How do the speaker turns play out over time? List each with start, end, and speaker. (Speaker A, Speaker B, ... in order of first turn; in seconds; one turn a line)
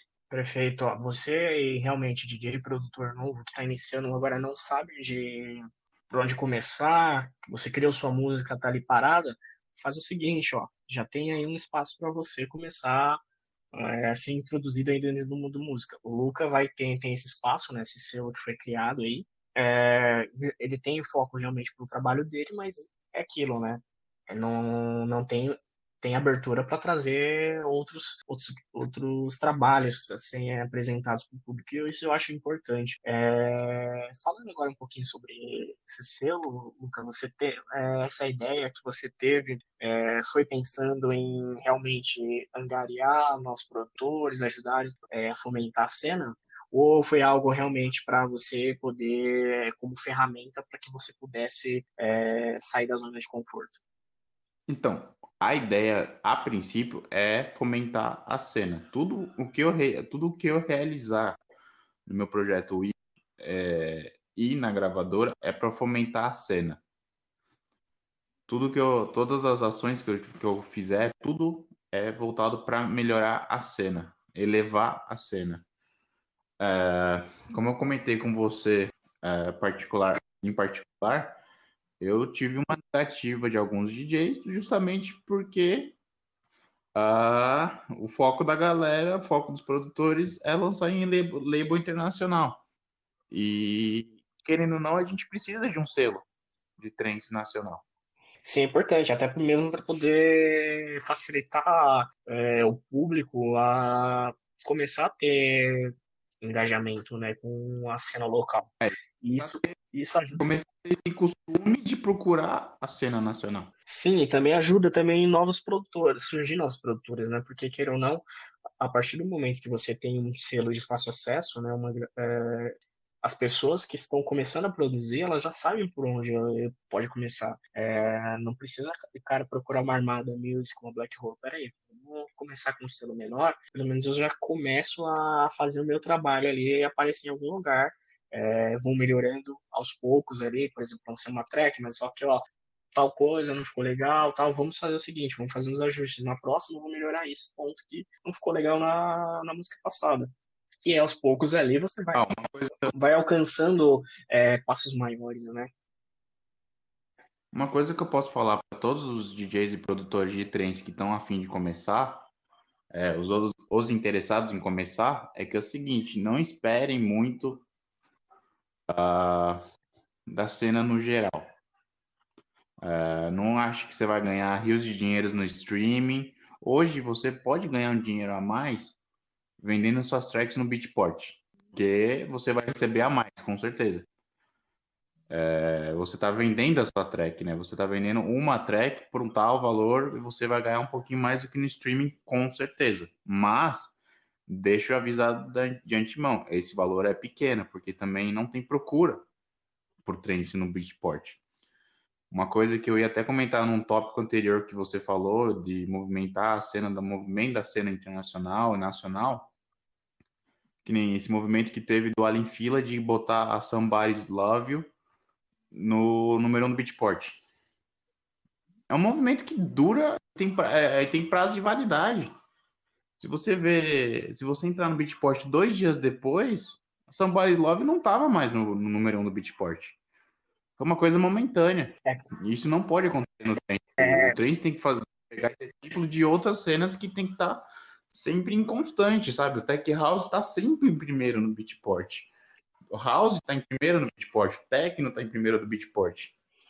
Speaker A: 0.3-13.2
Speaker A: 13.7-53.8
Speaker B: 54.7-61.4
Speaker B: 62.0-66.8
Speaker B: 68.5-75.6
Speaker B: 76.6-81.4
Speaker B: 82.0-86.0
Speaker B: 86.9-92.6
Speaker B: 93.3-96.2
Speaker B: 96.8-97.8
Speaker A: 98.4-110.4
Speaker B: 108.8-109.7
Speaker B: 110.4-113.7
Speaker A: 113.9-118.2
Speaker A: 118.8-150.3
Speaker A: 150.8-152.3
Speaker B: 152.1-152.9
Speaker A: 152.9-155.7
Speaker B: 157.5-162.3
Speaker B: 162.9-167.7
Speaker B: 168.9-169.6
Speaker B: 170.3-171.5
Speaker B: 172.8-179.0
Speaker B: 179.6-184.1
Speaker B: 185.3-193.9
Speaker B: 194.5-199.2
Speaker B: 200.0-201.4
Speaker B: 202.3-209.5
Speaker B: 210.8-214.9
Speaker B: 215.7-217.4
Speaker B: 218.9-222.3
Speaker B: 223.2-230.0
Speaker B: 230.8-242.3
Speaker A: 234.0-234.3
Speaker B: 242.9-246.3